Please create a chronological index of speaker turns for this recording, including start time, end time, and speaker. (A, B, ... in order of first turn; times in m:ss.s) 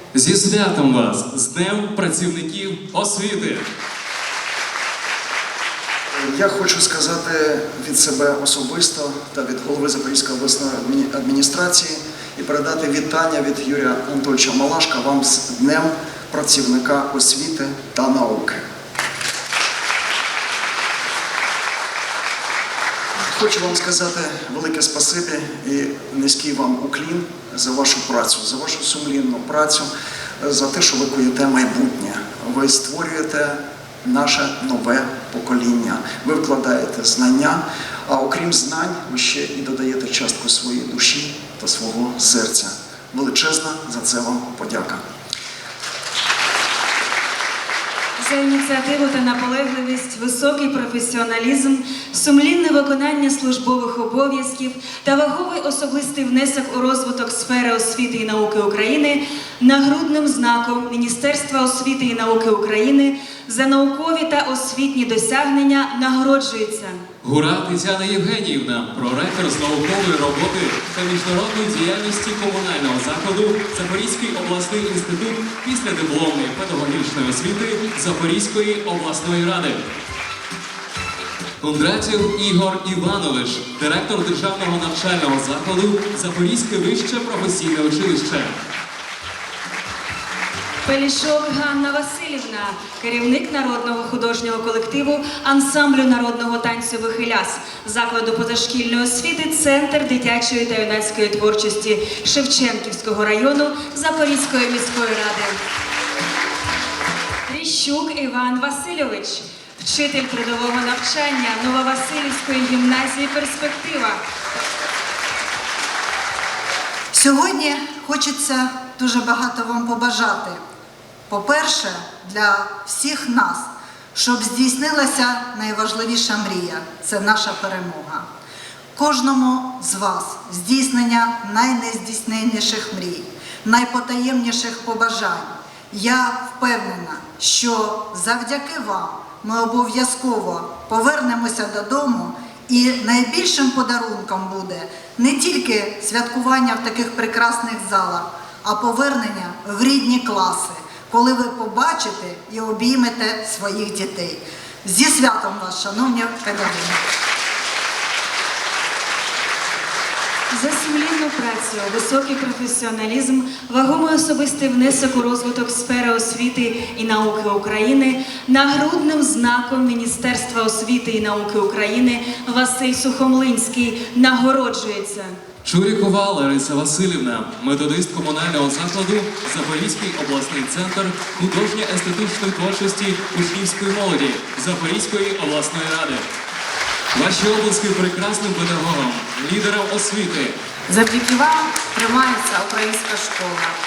0:00.1-0:03.6 A
0:06.1-0:18.6 B
0:23.3-0:29.9 B
0:30.4-0:45.0 B
0:48.2-1:07.0 C
1:07.2-1:19.8 A
1:21.6-1:28.5 A
1:30.8-1:45.6 C
1:47.5-1:54.2 C
1:57.1-2:00.6 D
2:01.3-2:08.2 D
2:08.9-2:37.0 D
2:40.5-2:55.4 C
2:55.6-3:06.2 A
3:07.1-3:10.6 A
3:10.9-3:13.7 E